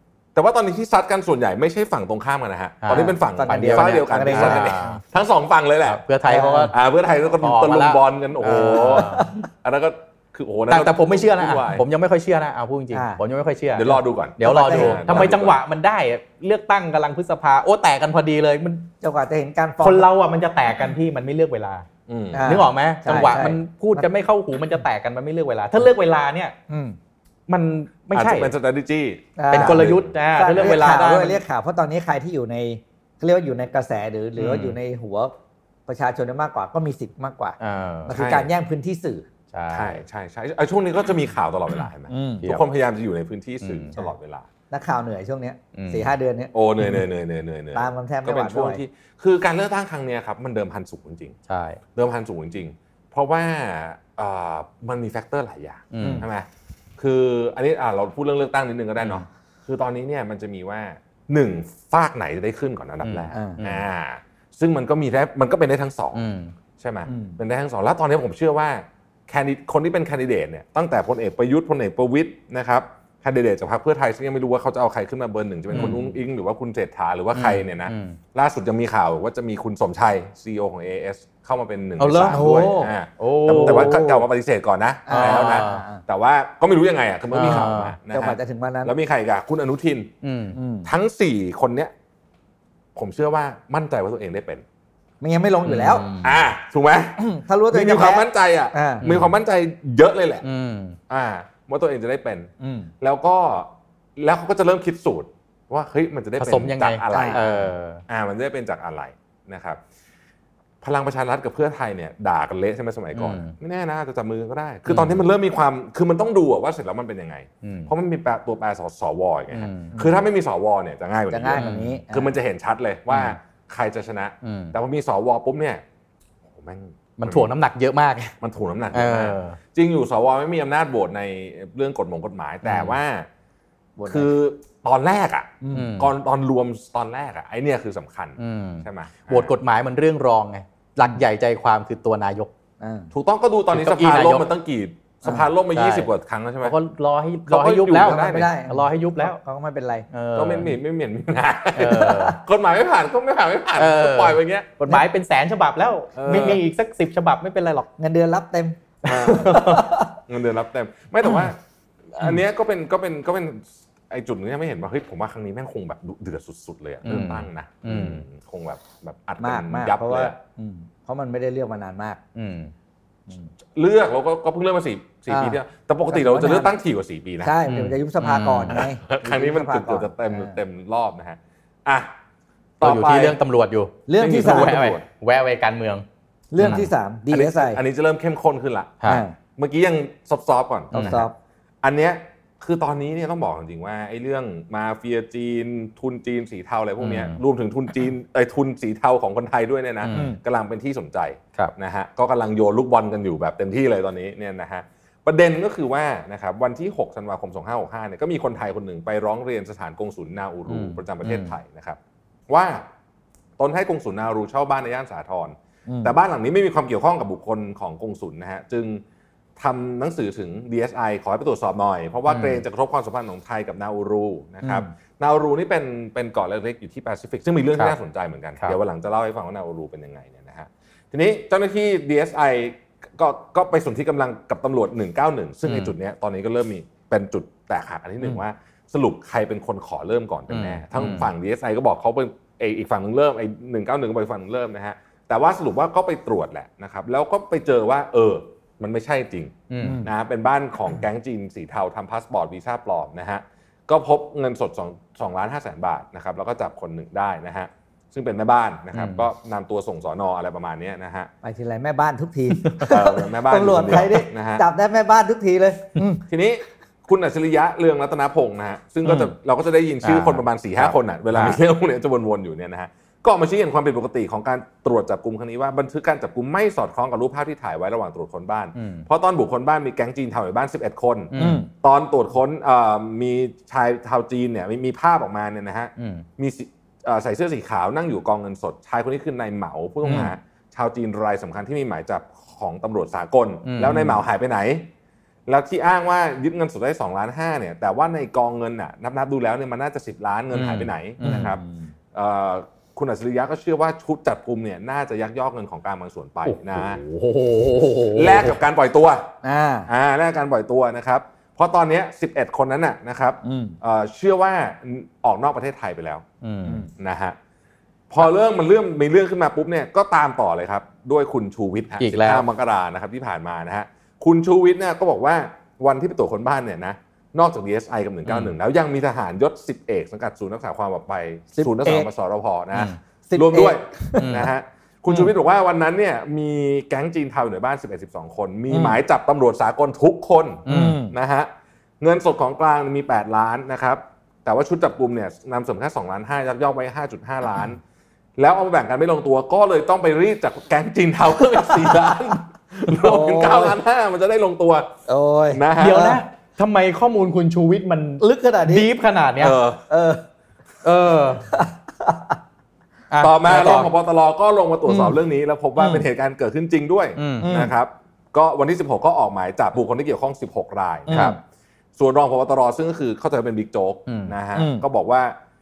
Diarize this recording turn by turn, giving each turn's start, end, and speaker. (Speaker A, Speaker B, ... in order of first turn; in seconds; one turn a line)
Speaker A: 0.3-6.0
Speaker B: 2.8-5.0
Speaker C: 2.9-4.9
Speaker B: 5.8-6.8
Speaker C: 6.2-6.7
Speaker A: 6.7-11.8
Speaker B: 7.4-9.3
Speaker C: 8.4-9.4
Speaker B: 10.7-18.9
Speaker C: 12.9-13.2
Speaker A: 13.7-15.6
Speaker C: 14.4-15.3
Speaker C: 19.0-20.1
Speaker B: 19.8-21.9
Speaker A: 22.1-22.6
Speaker C: 22.3-24.1
Speaker B: 22.4-26.5
Speaker C: 26.7-27.0
Speaker B: 27.5-28.5
Speaker A: 28.1-30.8
Speaker C: 29.4-35.3
Speaker B: 29.5-31.4
Speaker B: 34.4-34.8
Speaker C: 35.9-39.2
Speaker B: 37.6-38.1
Speaker A: 38.1-38.5
Speaker B: 39.5-40.0
Speaker A: 39.7-44.5
Speaker C: 42.1-42.5
Speaker B: 43.6-43.9
Speaker C: 44.7-47.0
Speaker B: 45.7-46.1
Speaker A: 46.5-51.4
Speaker C: 47.7-48.8
Speaker B: 51.5-51.8
Speaker A: 52.0-66.2
Speaker B: 55.9-56.2
Speaker C: 56.0-56.2
Speaker B: 63.0-63.8
Speaker C: 63.3-63.6
Speaker B: 66.1-66.5
Speaker A: 66.8-90.1
Speaker C: 67.1-67.4
Speaker B: 75.7-76.1
Speaker B: 77.3-78.2
Speaker B: 82.0-84.0
Speaker C: 82.3-82.9
Speaker C: 83.5-84.2
Speaker C: 85.1-86.0
Speaker B: 85.1-85.8
Speaker B: 87.3-88.0
Speaker C: 88.1-88.9
Speaker B: 90.2-90.6
Speaker C: 90.5-90.9
Speaker A: 90.8-91.9
Speaker A: 93.0-94.6
Speaker C: 95.2-96.0
Speaker B: 95.6-96.4
Speaker A: 96.2-100.4
Speaker C: 97.2-99.0
Speaker B: 99.0-99.3
Speaker B: 100.4-101.0
Speaker A: 101.1-102.5
Speaker C: 102.6-102.9
Speaker A: 103.0-109.8
Speaker B: 106.4-108.0
Speaker C: 107.1-107.4
Speaker A: 110.8-125.8
Speaker B: 113.1-113.5
Speaker B: 114.9-115.2
Speaker B: 117.6-117.9
Speaker B: 119.5-119.9
Speaker C: 121.3-122.3
Speaker B: 121.5-122.0
Speaker B: 123.1-123.4
Speaker B: 124.4-124.7
Speaker A: 126.5-127.5
Speaker B: 127.2-128.3
Speaker A: 128.4-133.3
Speaker B: 128.9-129.6
Speaker B: 132.6-133.0
Speaker C: 134.0-134.3
Speaker A: 134.1-139.5
Speaker C: 135.6-135.9
Speaker B: 135.7-136.1
Speaker B: 138.4-142.5
Speaker C: 142.8-143.1
Speaker A: 143.1-146.8
Speaker B: 143.7-144.5
Speaker B: 145.7-146.1
Speaker B: 146.6-149.4
Speaker A: 147.5-148.5
Speaker C: 148.0-150.1
Speaker B: 150.1-150.8
Speaker A: 150.3-154.7
Speaker B: 151.7-152.4
Speaker B: 153.8-157.9
Speaker A: 156.2-156.6
Speaker C: 156.3-156.6
Speaker C: 158.0-160.1
Speaker B: 159.0-159.9
Speaker A: 159.0-161.6
Speaker A: 162.1-170.3
Speaker B: 167.0-168.2
Speaker C: 169.4-172.2
Speaker B: 172.3-172.7
Speaker A: 173.7-177.5
Speaker C: 175.3-176.7
Speaker C: 177.4-180.6
Speaker B: 177.7-178.8
Speaker A: 178.7-182.1
Speaker A: 182.8-183.4
Speaker B: 182.8-186.0
Speaker C: 184.1-184.9
Speaker A: 184.2-185.0
Speaker C: 186.5-187.8
Speaker B: 186.6-186.9
Speaker A: 186.6-191.2
Speaker C: 189.0-189.3
Speaker B: 190.9-191.2
Speaker C: 190.9-191.3
Speaker A: 191.8-212.8
Speaker B: 197.0-197.4
Speaker B: 200.0-200.3
Speaker C: 200.1-200.4
Speaker B: 210.7-211.5
Speaker A: 213.6-219.0
Speaker C: 215.9-216.1
Speaker A: 219.6-261.3
Speaker B: 222.3-222.6
Speaker C: 224.6-224.9
Speaker B: 235.7-235.9
Speaker B: 240.5-241.3
Speaker B: 249.7-250.0
Speaker C: 249.8-250.1
Speaker B: 258.9-259.2
Speaker C: 261.4-266.2
Speaker A: 262.8-264.6
Speaker A: 266.3-294.9
Speaker B: 269.0-269.3
Speaker B: 270.0-271.6
Speaker B: 278.8-279.1
Speaker B: 281.3-281.6
Speaker C: 281.4-281.7
Speaker B: 286.0-286.2
Speaker B: 293.6-294.2
Speaker A: 295.5-301.6
Speaker B: 300.5-301.5
Speaker C: 301.2-301.9
Speaker A: 302.1-307.0
Speaker B: 306.4-308.6
Speaker A: 308.1-309.3
Speaker C: 309.4-309.9
Speaker A: 309.9-316.2
Speaker C: 313.4-313.8
Speaker B: 316.4-316.8
Speaker A: 317.0-317.4
Speaker A: 318.1-341.5
Speaker B: 322.0-322.4
Speaker B: 328.2-328.5
Speaker C: 331.5-332.1
Speaker C: 333.3-334.4
Speaker B: 334.2-334.5
Speaker C: 338.7-338.9
Speaker B: 340.7-341.0
Speaker C: 340.7-341.1
Speaker A: 342.0-347.8
Speaker A: 348.4-354.9
Speaker C: 352.9-353.8
Speaker C: 355.1-356.2
Speaker A: 355.5-356.1
Speaker B: 355.8-359.6
Speaker C: 358.2-358.9
Speaker A: 359.4-359.8
Speaker C: 359.9-360.2
Speaker B: 360.8-361.4
Speaker C: 361.5-362.4
Speaker B: 363.1-363.9
Speaker A: 363.2-371.3
Speaker C: 364.9-365.2
Speaker B: 367.2-367.5
Speaker C: 367.4-367.7
Speaker C: 371.1-371.4
Speaker B: 371.1-371.4
Speaker A: 371.9-375.4
Speaker B: 374.1-374.3
Speaker C: 374.5-374.8